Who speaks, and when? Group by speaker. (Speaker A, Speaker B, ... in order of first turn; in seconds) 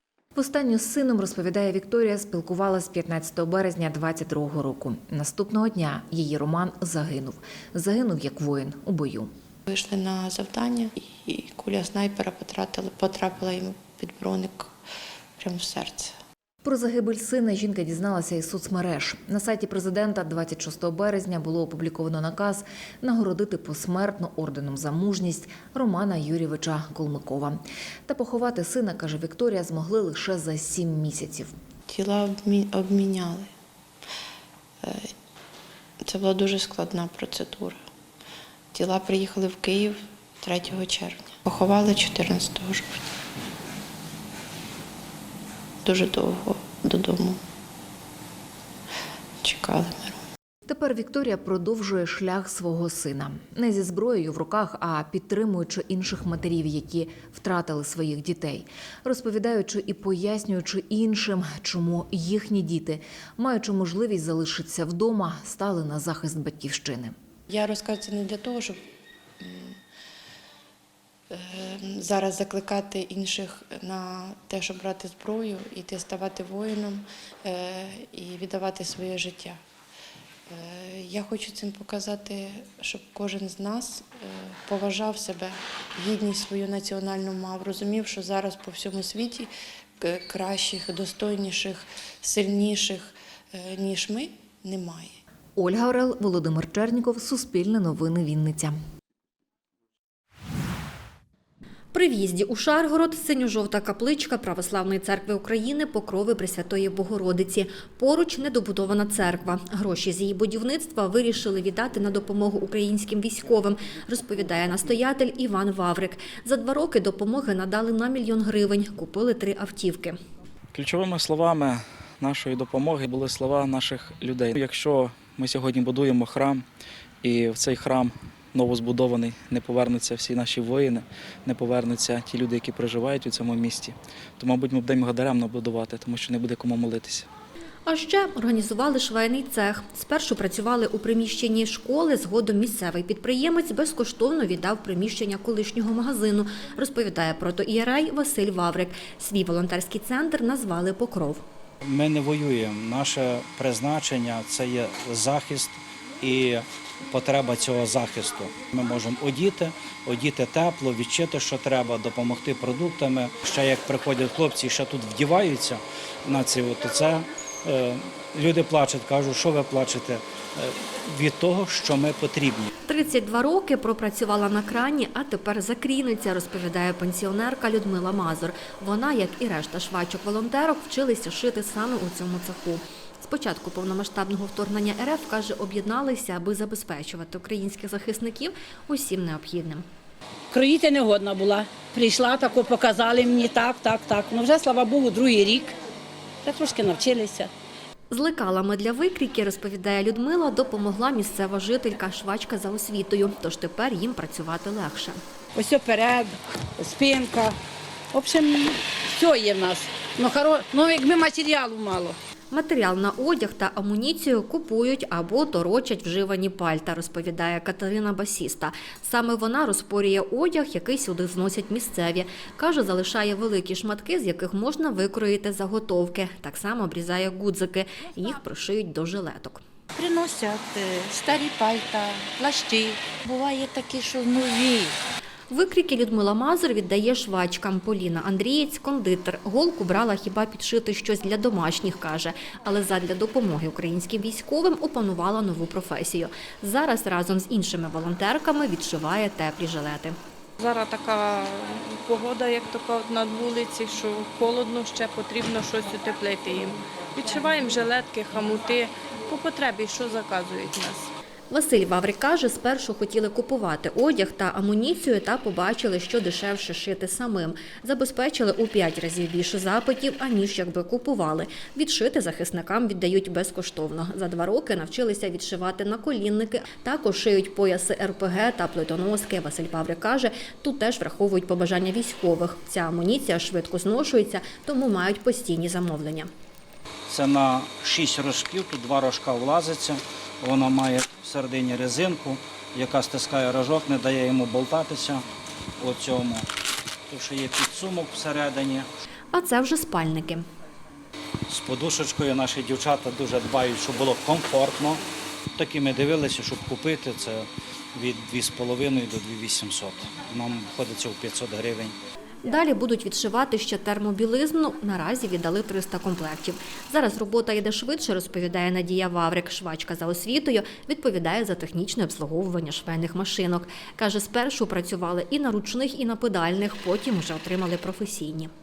Speaker A: 0.4-9.3, 16.6-31.5, 50.7-67.1, 95.6-98.8
Speaker B: 9.7-14.7, 15.4-16.1, 31.9-33.5, 34.8-35.1, 36.0-37.8, 38.7-43.1, 45.8-47.4, 49.4-50.2, 67.5-68.8, 69.4-69.8, 71.3-79.6, 80.5-95.2
Speaker C: 101.9-120.2, 137.8-151.4, 172.9-189.9, 198.1-205.2, 212.5-229.6, 235.5-250.2, 261.5-286.3, 299.3-300.4, 312.4-328.5
Speaker D: 120.7-126.6, 127.2-137.3
Speaker E: 151.8-172.7, 287.1-295.2, 295.8-296.4, 297.1-298.9, 301.5-305.0, 305.6-311.9
Speaker F: 190.5-195.8, 196.4-197.5, 205.6-207.6, 208.1-212.2
Speaker G: 229.9-235.0
Speaker H: 250.6-261.1